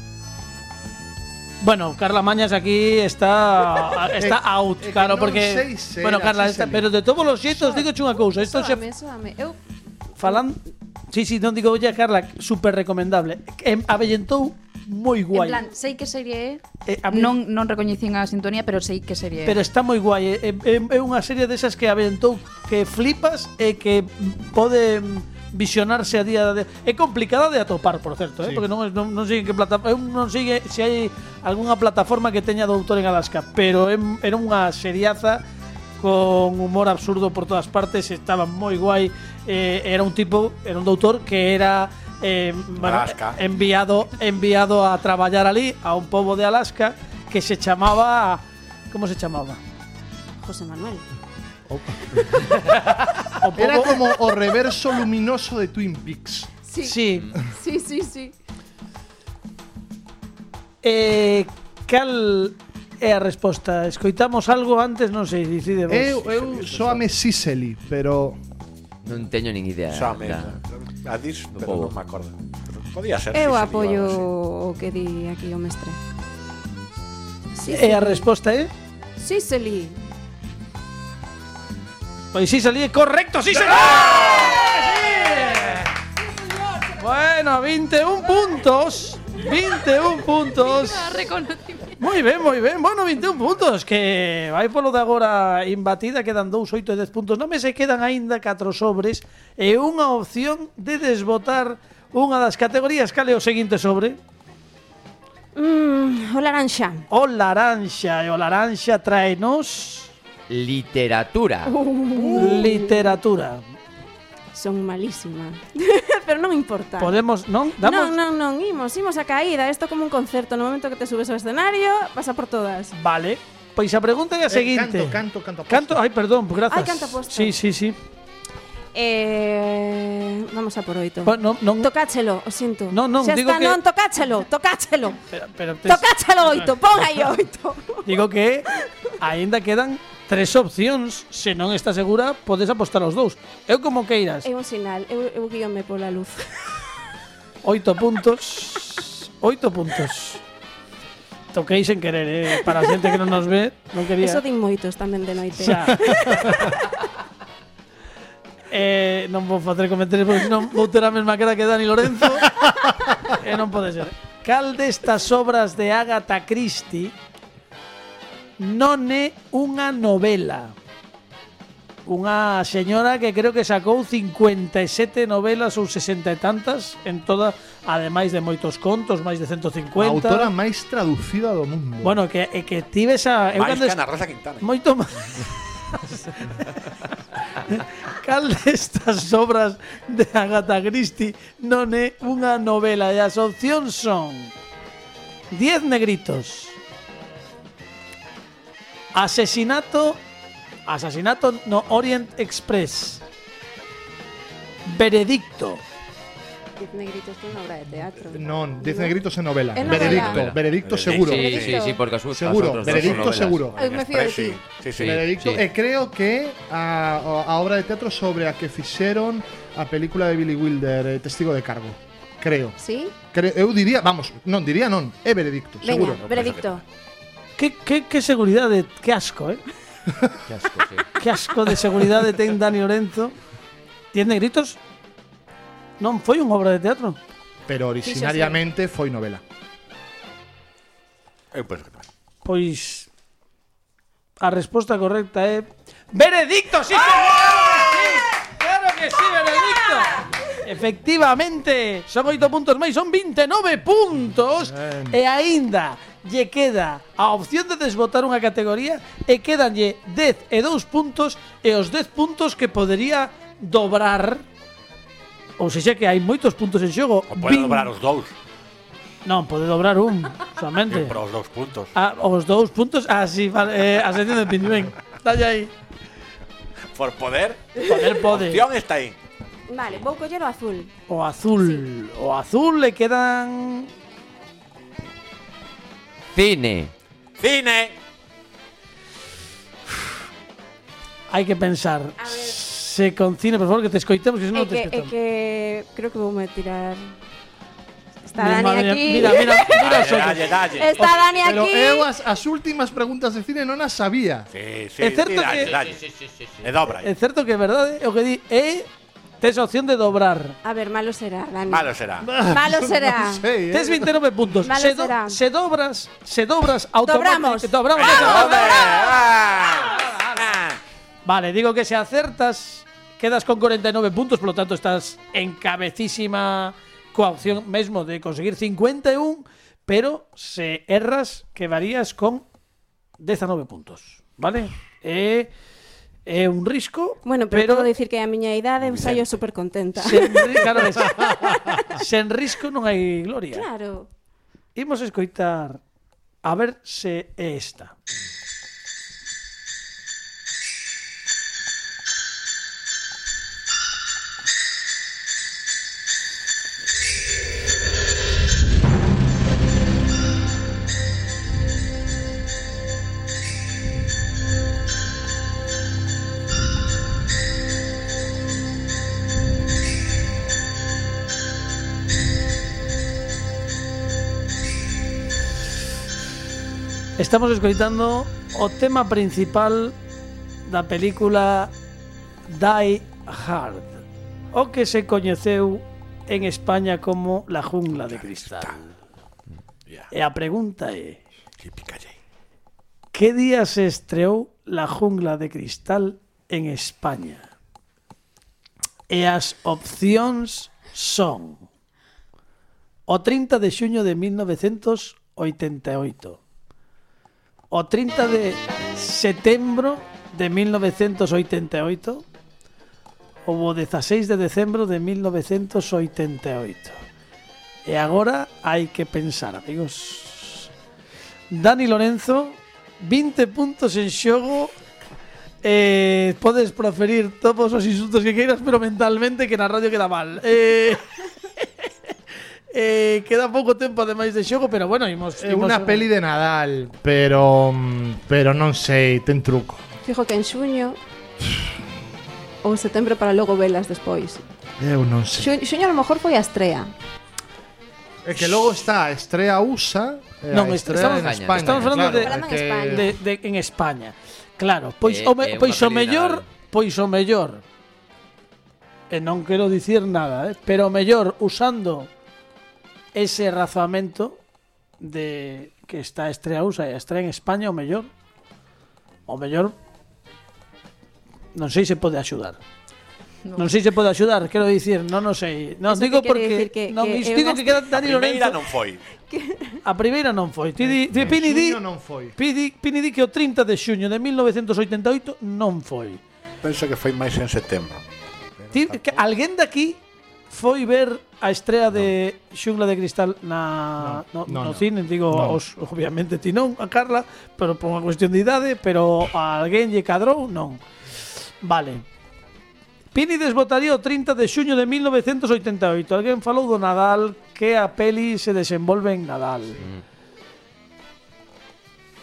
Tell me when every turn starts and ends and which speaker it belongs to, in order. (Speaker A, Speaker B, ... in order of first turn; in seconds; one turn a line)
Speaker A: 1.6-8.8
Speaker B: 4.2-7.0
Speaker B: 7.5-7.8
Speaker C: 7.6-9.6
Speaker C: 10.2-10.4
Speaker A: 10.2-15.6
Speaker D: 15.3-19.6
Speaker A: 16.9-17.3
Speaker A: 19.4-35.4
Speaker A: 36.0-49.6
Speaker E: 42.8-43.4
Speaker C: 50.4-51.0
Speaker B: 51.7-52.2
Speaker A: 53.4-54.0
Speaker B: 53.5-56.5
Speaker C: 56.7-58.3
Speaker A: 56.8-57.3
Speaker A: 60.8-66.3
Speaker B: 65.9-68.4
Speaker E: 66.2-67.0
Speaker F: 69.0-70.6
Speaker E: 69.9-74.3
Speaker F: 71.6-71.9
Speaker C: 73.3-76.0
Speaker C: 77.5-78.3
Speaker A: 77.7-78.7
Speaker C: 79.2-80.0
Speaker A: 82.3-85.8
Speaker A: 86.9-91.2
Speaker D: 90.6-92.0
Speaker A: 92.0-104.2
Speaker C: 105.5-107.0
Speaker A: 107.1-110.1
Speaker F: 110.5-111.7
Speaker C: 111.7-113.1
Speaker A: 112.2-113.6
Speaker C: 114.5-117.2
Speaker A: 117.0-118.2
Speaker C: 117.8-122.9
Speaker A: 123.0-128.0
Speaker B: 124.5-126.0
Speaker C: 126.7-127.6
Speaker C: 128.9-135.2
Speaker A: 131.2-131.9
Speaker A: 132.9-133.8
Speaker A: 135.3-136.7
Speaker C: 135.8-138.1
Speaker A: 138.0-144.5
Speaker C: 144.4-146.5
Speaker A: 147.6-150.4
Speaker A: 151.5-154.4
Speaker C: 154.2-156.8
Speaker A: 155.6-156.1
Speaker A: 158.7-167.1
Speaker A: 168.6-170.7
Speaker A: 172.1-180.5
Speaker B: 180.0-182.2
Speaker A: 182.0-184.0
Speaker E: 183.5-184.7
Speaker A: 184.6-186.8
Speaker A: 187.6-194.5
Speaker A: 195.5-196.8
Speaker A: 199.1-200.2
Speaker A: 200.9-203.2
Speaker A: 204.8-205.8
Speaker C: 206.8-209.1
Speaker B: 208.3-211.6
Speaker C: 209.7-210.4
Speaker F: 209.8-213.7
Speaker E: 210.1-211.9
Speaker C: 211.3-212.0
Speaker B: 212.3-213.8
Speaker E: 212.8-215.5
Speaker C: 213.8-214.6
Speaker F: 214.9-215.6
Speaker B: 215.0-222.8
Speaker C: 222.8-223.1
Speaker B: 223.3-226.2
Speaker C: 225.8-226.8
Speaker F: 226.3-226.6
Speaker E: 226.4-226.6
Speaker A: 227.6-229.6
Speaker F: 230.4-231.0
Speaker A: 231.2-233.3
Speaker A: 234.1-234.8
Speaker A: 236.0-237.2
Speaker B: 237.7-239.4
Speaker C: 238.0-238.6
Speaker E: 241.5-242.1
Speaker A: 242.4-243.1
Speaker A: 244.4-264.4
Speaker B: 254.6-255.2
Speaker A: 265.6-267.9
Speaker E: 267.3-268.3
Speaker A: 269.2-271.1
Speaker E: 270.9-271.9
Speaker A: 271.9-275.7
Speaker E: 276.9-279.2
Speaker A: 277.8-278.6
Speaker C: 279.7-280.9
Speaker A: 281.1-283.9
Speaker C: 281.5-281.8
Speaker F: 286.3-286.9
Speaker E: 287.4-287.9
Speaker A: 291.3-295.1
Speaker C: 292.2-292.5
Speaker C: 294.5-297.1
Speaker C: 298.3-299.8
Speaker A: 298.4-301.1
Speaker E: 299.7-301.2
Speaker C: 300.8-302.1
Speaker B: 301.4-304.5
Speaker E: 304.5-307.1
Speaker A: 305.0-305.7
Speaker F: 305.4-306.7
Speaker A: 307.0-308.9
Speaker A: 309.4-310.6
Speaker C: 310.6-313.4
Speaker E: 311.7-312.3
Speaker B: 312.2-314.2
Speaker A: 313.7-318.7
Speaker C: 314.6-315.4
Speaker C: 317.0-319.2
Speaker E: 317.9-320.8
Speaker A: 319.9-320.4
Speaker A: 321.2-332.4
Speaker A: 333.2-335.5
Speaker A: 336.2-337.9
Speaker C: 337.2-341.6
Speaker E: 338.8-339.3
Speaker A: 339.9-343.7
Speaker B: 341.2-341.5
Speaker C: 343.5-344.1
Speaker A: 344.8-345.8
Speaker A: 346.4-347.9
Speaker A: 377.2-379.9
Speaker A: 380.6-381.7
Speaker A: 382.5-384.0
Speaker A: 384.5-388.7
Speaker E: 387.9-388.9
Speaker A: 390.1-391.2
Speaker E: 391.6-392.1
Speaker A: 393.1-397.5
Speaker A: 399.1-401.6
Speaker A: 403.1-406.4
Speaker A: 407.7-412.2
Speaker A: 413.4-417.0
Speaker A: 417.9-420.7
Speaker A: 421.5-424.7
Speaker A: 425.6-431.9
Speaker A: 432.7-436.1
Speaker B: 435.4-439.8
Speaker C: 440.0-441.0
Speaker C: 442.6-444.4
Speaker B: 444.8-445.5
Speaker C: 445.4-446.9
Speaker B: 448.2-453.1
Speaker A: 450.5-457.6
Speaker F: 450.9-452.2
Speaker C: 452.1-453.1
Speaker F: 455.0-456.5
Speaker A: 459.1-462.1
Speaker A: 463.1-464.4
Speaker A: 465.0-468.1
Speaker A: 469.3-469.7
Speaker A: 471.5-472.6
Speaker A: 473.6-478.6
Speaker C: 475.9-477.8
Speaker E: 477.8-479.0
Speaker C: 479.2-479.8
Speaker A: 479.8-481.8
Speaker B: 480.8-482.3
Speaker A: 482.4-486.2
Speaker E: 486.6-489.2
Speaker A: 488.7-490.0
Speaker A: 490.5-500.8
Speaker B: 494.0-495.6
Speaker A: 501.6-502.0
Speaker A: 503.1-509.8